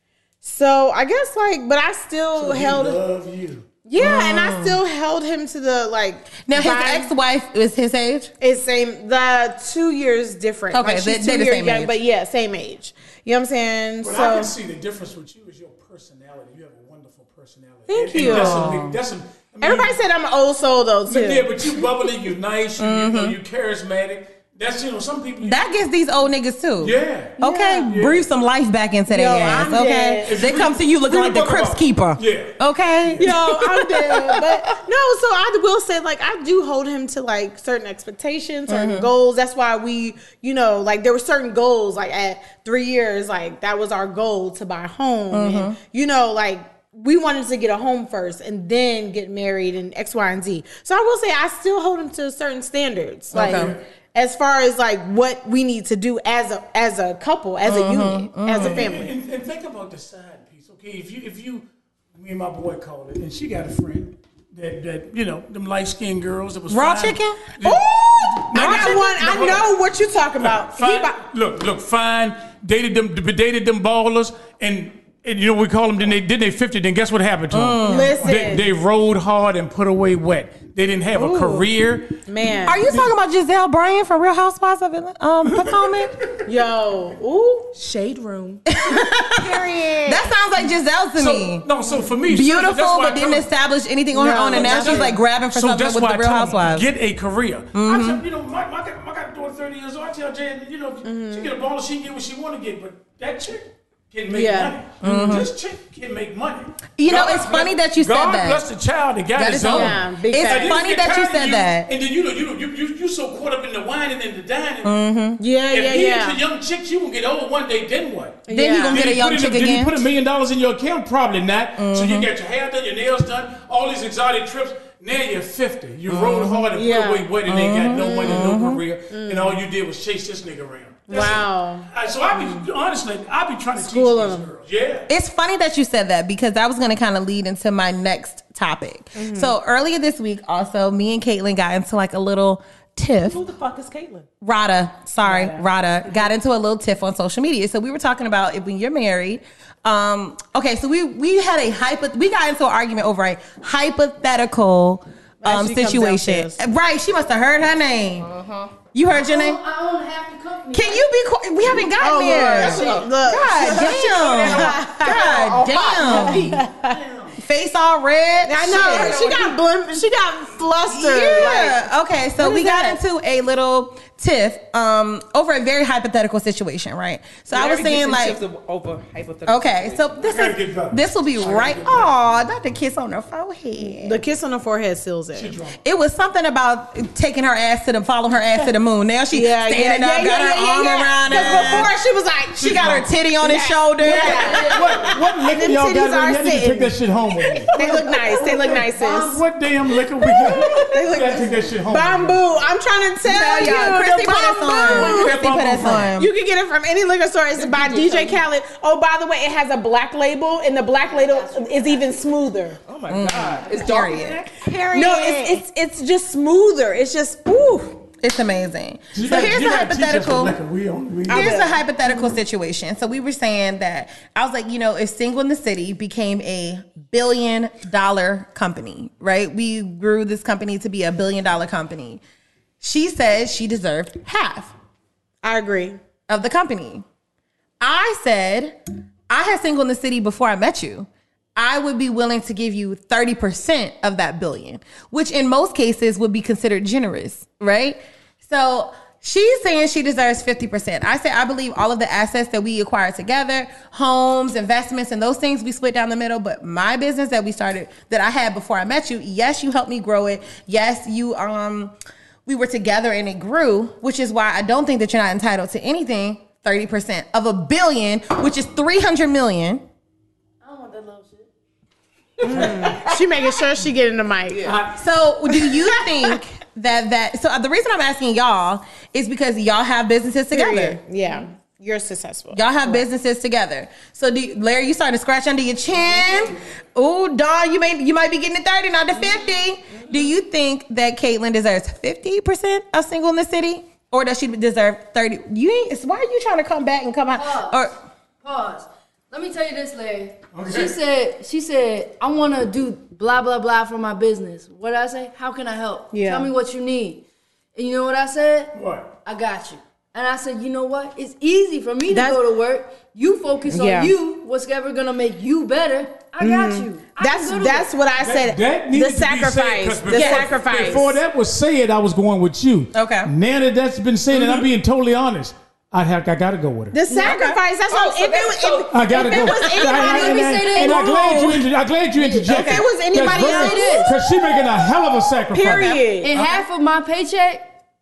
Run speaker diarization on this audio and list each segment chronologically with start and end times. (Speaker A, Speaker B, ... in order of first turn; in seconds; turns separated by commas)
Speaker A: 0.4-3.0, Speaker B: 2.4-3.7, Speaker A: 3.9-7.1, Speaker C: 4.0-4.8, Speaker C: 6.5-8.3, Speaker A: 8.4-14.5, Speaker C: 10.7-11.9, Speaker B: 14.0-20.0, Speaker A: 17.9-18.8, Speaker C: 18.2-19.0, Speaker A: 19.6-21.5, Speaker B: 21.1-25.6, Speaker C: 22.8-23.4, Speaker C: 25.4-34.5, Speaker B: 26.8-28.3, Speaker A: 27.4-27.9, Speaker A: 29.1-30.3, Speaker B: 30.2-33.3, Speaker A: 33.2-59.1, Speaker C: 38.7-39.1, Speaker C: 45.3-45.8, Speaker B: 53.3-53.8, Speaker C: 53.3-53.8, Speaker C: 57.6-58.9, Speaker B: 58.5-69.7, Speaker C: 66.7-67.5, Speaker A: 67.6-71.2, Speaker C: 68.5-69.0, Speaker B: 70.4-82.2, Speaker C: 77.5-78.2, Speaker A: 77.8-78.7, Speaker A: 81.2-81.7, Speaker A: 82.3-82.8, Speaker C: 82.7-86.1, Speaker B: 82.8-83.1, Speaker B: 85.5-86.1, Speaker A: 86.5-87.7, Speaker D: 87.8-90.3, Speaker C: 88.7-91.7, Speaker B: 91.2-93.5, Speaker C: 92.3-96.9, Speaker A: 94.1-95.2, Speaker B: 94.5-114.9, Speaker C: 97.7-98.2, Speaker A: 101.0-101.5, Speaker A: 104.3-104.8, Speaker C: 105.0-105.5, Speaker C: 107.0-108.6, Speaker C: 109.4-111.9, Speaker A: 109.7-110.8, Speaker C: 114.8-115.4, Speaker A: 115.4-116.4, Speaker B: 115.7-135.1, Speaker A: 118.5-119.0, Speaker C: 118.5-120.0, Speaker C: 121.8-122.3, Speaker C: 126.1-126.7, Speaker A: 126.7-127.3, Speaker C: 127.5-128.8, Speaker A: 128.0-128.5, Speaker A: 129.1-129.6, Speaker A: 131.1-132.6, Speaker A: 133.8-134.5, Speaker C: 135.1-143.4, Speaker A: 139.2-139.5, Speaker D: 143.2-144.3, Speaker C: 144.4-158.3, Speaker A: 145.2-145.6, Speaker A: 155.4-156.6, Speaker D: 158.2-158.7, Speaker C: 158.9-159.6, Speaker E: 159.1-161.1, Speaker C: 160.7-166.6, Speaker A: 162.0-167.0, Speaker D: 162.3-166.6, Speaker B: 163.9-164.8, Speaker B: 166.0-167.0, Speaker C: 167.4-169.2, Speaker A: 168.4-171.8, Speaker D: 168.6-169.6, Speaker C: 170.9-178.4, Speaker D: 171.2-171.5, Speaker A: 172.4-173.0, Speaker D: 177.5-180.2, Speaker C: 179.5-184.2, Speaker B: 180.2-182.1, Speaker A: 183.9-185.6, Speaker B: 185.3-185.8, Speaker C: 185.8-191.9, Speaker A: 189.3-197.0, Speaker B: 191.4-191.9, Speaker B: 192.6-193.1, Speaker C: 192.6-195.2, Speaker B: 194.0-202.4, Speaker A: 197.7-199.4, Speaker A: 200.3-205.4, Speaker C: 203.2-206.3, Speaker B: 204.7-206.2, Speaker A: 206.2-212.8, Speaker D: 207.6-208.4, Speaker D: 212.9-215.6, Speaker C: 213.1-214.4, Speaker A: 213.8-218.0, Speaker C: 218.2-220.6, Speaker B: 219.1-221.7, Speaker A: 221.3-221.8, Speaker C: 221.3-232.2, Speaker C: 232.8-234.7, Speaker A: 235.4-236.0, Speaker C: 236.3-237.0, Speaker C: 237.8-238.8, Speaker C: 239.3-261.9, Speaker C: 262.5-269.8, Speaker E: 270.6-271.5, Speaker A: 272.4-274.8, Speaker B: 272.4-273.0, Speaker B: 274.6-275.0, Speaker C: 274.9-281.0, Speaker A: 280.5-283.1, Speaker C: 282.5-297.9, Speaker E: 297.3-297.9, Speaker E: 298.4-307.2, Speaker B: 300.5-301.0, Speaker A: 306.1-306.5, Speaker E: 307.8-317.9, Speaker B: 308.7-309.1, Speaker A: 312.1-312.4, Speaker A: 313.7-314.1, Speaker A: 316.4-321.2, Speaker B: 318.2-327.0, Speaker C: 320.1-320.5, Speaker C: 322.9-323.3, Speaker A: 324.3-324.6, Speaker A: 326.9-331.6, Speaker C: 327.1-327.6, Speaker D: 327.9-329.0, Speaker B: 328.9-336.0, Speaker E: 329.7-331.4, Speaker A: 332.3-334.2, Speaker E: 333.3-334.4, Speaker A: 335.5-336.4, Speaker E: 336.1-337.7